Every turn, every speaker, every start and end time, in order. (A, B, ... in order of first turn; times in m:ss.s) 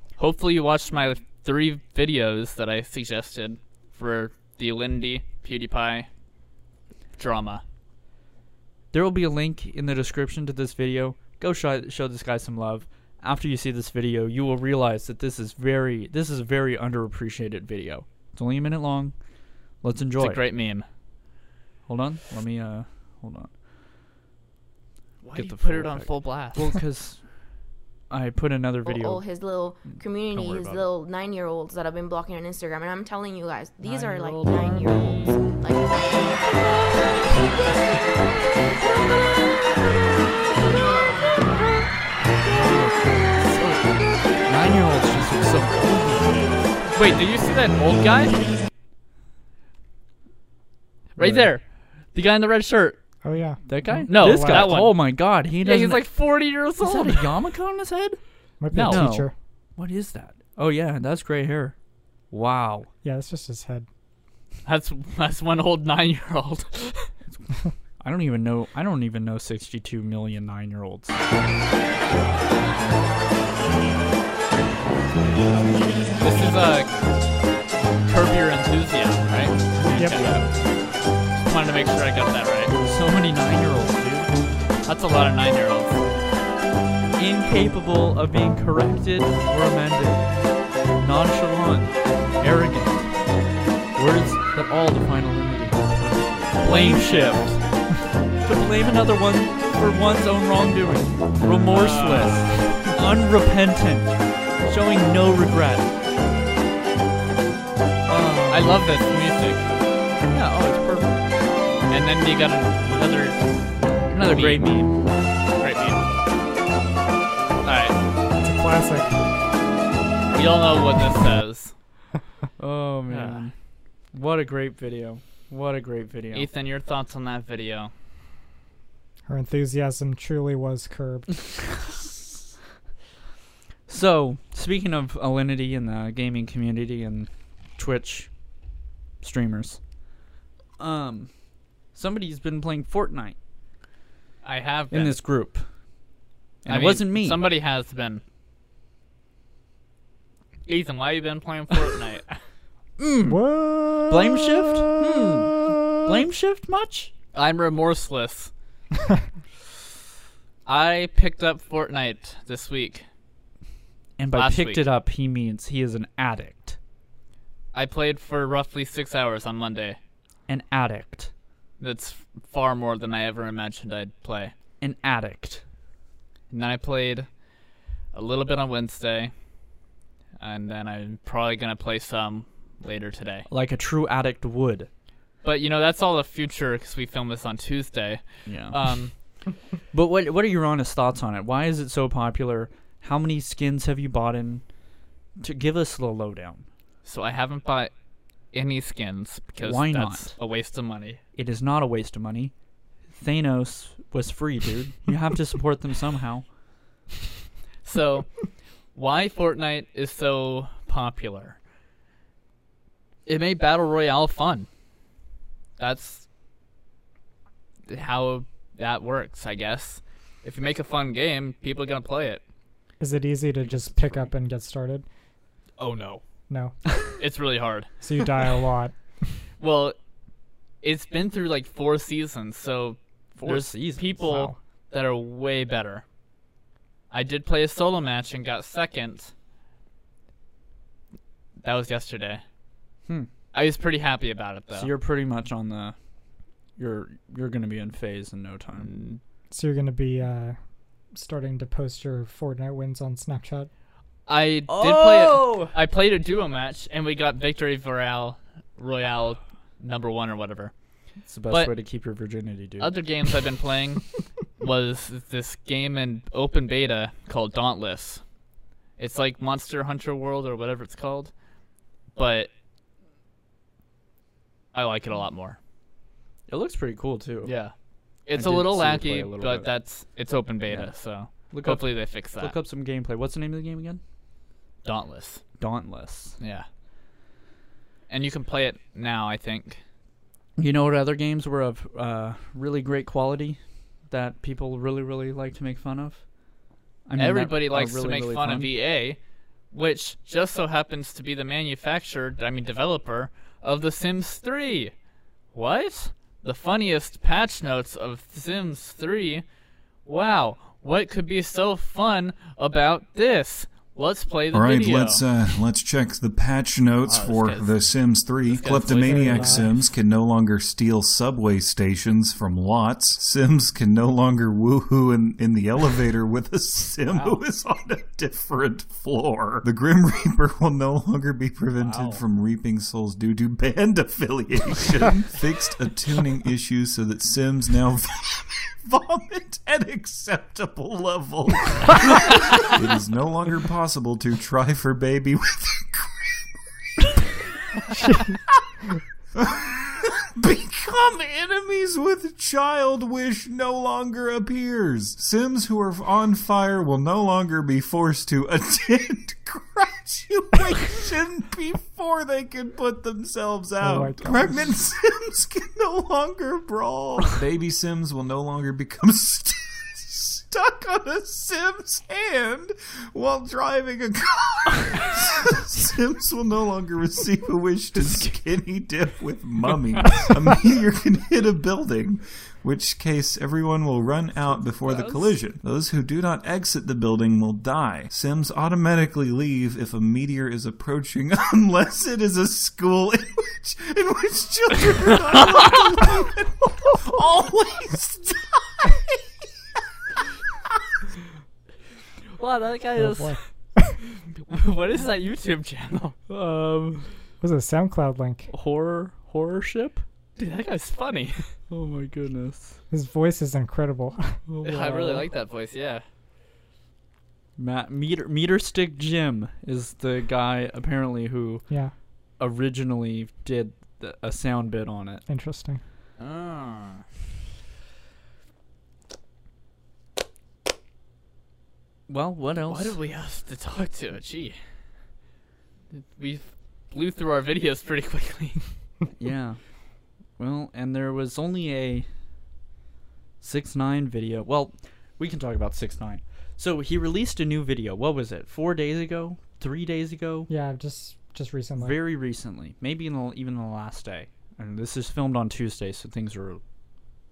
0:00.2-0:06.1 A
0:07.2-0:07.6 A
0:08.9-0:19.1 B
0:19.8-0:20.4 B
0:20.2-0:20.8 A
0:21.9-0:23.5 B
0:25.2-0:26.7 A
0:25.3-0:27.2 B
0:28.1-0:29.2 B
0:28.8-0:36.2 C
0:29.9-0:30.9 B
0:33.8-0:35.4 A
0:42.4-0:43.9 B
0:44.4-0:46.7 B
0:46.9-0:48.4 A
0:51.2-0:53.0 A
0:51.2-0:51.5 B
0:53.2-0:54.8 D
0:53.7-0:56.0 B
0:54.1-0:55.0 A
0:55.6-0:57.3 A
0:56.8-0:58.2 B
0:58.6-0:59.3 D
0:58.7-0:59.1 A
0:58.7-1:01.7 B
1:02.3-1:02.9 B
1:03.0-1:03.9 D
1:04.6-1:07.1 A
1:08.0-1:11.2 B
1:16.2-1:17.0 A
1:18.0-1:20.4 A
1:19.8-1:20.5 B
1:21.4-1:22.7 A
1:22.7-1:24.3 B
1:24.8-1:26.0 A
1:27.2-1:30.2 B
1:31.0-1:33.1 B
1:34.0-1:37.6 B
1:36.6-1:37.1 A
1:38.4-1:45.9 B
1:41.7-1:42.9 A
1:48.1-1:48.8 B
1:48.5-1:49.7 A
1:50.2-1:51.2 B
1:51.9-1:53.4 A
1:54.1-1:54.9 B
1:54.2-1:54.9 A
1:55.6-1:56.0 A
1:57.6-1:58.0 A
1:58.4-1:59.2 D
2:00.3-2:01.7 A
2:02.6-2:03.5 B
2:03.1-2:03.5 A
2:04.1-2:06.5 B
2:06.3-2:07.9 A
2:09.3-2:11.6 D
2:13.9-2:18.3 B
2:19.2-2:19.8 B
2:20.8-2:21.3 B
2:21.9-2:23.4 B
2:24.4-2:25.2 A
2:24.9-2:25.6 B
2:26.6-2:27.4 B
2:26.7-2:28.2 A
2:30.6-2:32.4 A
2:33.0-2:33.4 B
2:33.3-2:36.1 D
2:34.1-2:37.1 B
2:37.3-2:38.5 A
2:40.6-2:43.0 A
2:44.2-2:46.8 B
2:44.3-2:44.8 A
2:47.7-2:50.0 A
2:50.5-2:51.3 B
2:51.8-2:54.5 A
2:54.8-2:55.6 B
2:56.5-2:57.3 A
2:58.1-2:59.3 A
3:00.4-3:03.4 A
3:03.5-3:04.9 B
3:05.4-3:09.1 A
3:08.4-3:08.8 B
3:09.9-3:14.6 B
3:15.4-3:16.7 B
3:17.0-3:17.9 A
3:18.5-3:21.2 A
3:19.6-3:20.3 B
3:21.4-3:22.5 B
3:23.2-3:26.4 B
3:27.8-3:28.3 A
3:28.9-3:31.6 A
3:33.2-3:34.7 A
3:35.8-3:36.2 A
3:37.9-3:42.4 A
3:43.0-3:45.0 D
3:43.6-3:44.3 B
3:45.8-3:46.2 A
3:46.5-3:46.8 D
3:47.2-3:47.9 A
3:48.0-3:48.9 D
3:49.6-3:50.0 A
3:50.8-3:56.0 A
3:53.4-3:54.2 B
3:54.2-3:54.6 D
3:57.1-3:59.3 A
4:01.6-4:02.4 A
4:03.5-4:04.9 A
4:04.7-4:06.0 B
4:06.8-4:08.9 B
4:08.8-4:09.2 A
4:09.5-4:10.6 D
4:11.1-4:13.7 D
4:14.3-4:20.7 A
4:14.7-4:15.7 B
4:21.3-4:22.9 B
4:22.8-4:28.2 A
4:29.0-4:31.3 A
4:32.2-4:32.5 A
4:34.7-4:35.6 A
4:36.5-4:37.5 B
4:37.4-4:37.7 A
4:38.3-4:42.5 A
4:38.3-4:39.7 B
4:41.5-4:44.0 B
4:44.8-4:45.4 A
4:45.6-4:46.4 B
4:46.4-4:46.6 A
4:48.1-4:49.8 A
4:50.6-4:56.2 B
4:57.1-4:58.7 B
4:57.2-4:59.2 A
4:59.7-5:04.9 A
5:05.5-5:09.4 A
5:10.0-5:15.2 A
5:14.5-5:48.4 E
5:17.0-5:17.7 A
5:18.5-5:19.7 A
5:19.0-5:19.7 D
5:27.1-5:27.4 A
5:31.8-5:32.2 A
5:49.3-6:39.2 E
6:03.8-6:04.6 D
6:18.1-6:18.3 A
6:20.0-6:20.3 A
6:24.8-6:25.3 A
6:42.3-6:43.4 A
6:43.0-6:43.9 D
6:44.3-6:46.1 A
6:46.3-6:47.1 B
6:47.4-6:48.5 D
6:48.5-6:50.0 B
6:50.4-6:51.4 A
6:51.7-6:52.8 B
6:52.9-6:54.4 D
6:54.5-6:55.3 B
6:54.6-6:56.0 A
6:57.6-7:01.6 B
7:02.4-7:05.2 B
7:05.3-7:05.8 D
7:06.2-7:07.0 A
7:12.1-7:13.0 B
7:12.7-7:14.6 A
7:15.9-7:18.6 A
7:19.2-7:19.6 B
7:20.4-7:22.1 B
7:23.4-7:30.5 B
7:30.5-7:32.0 D
7:31.8-7:36.6 B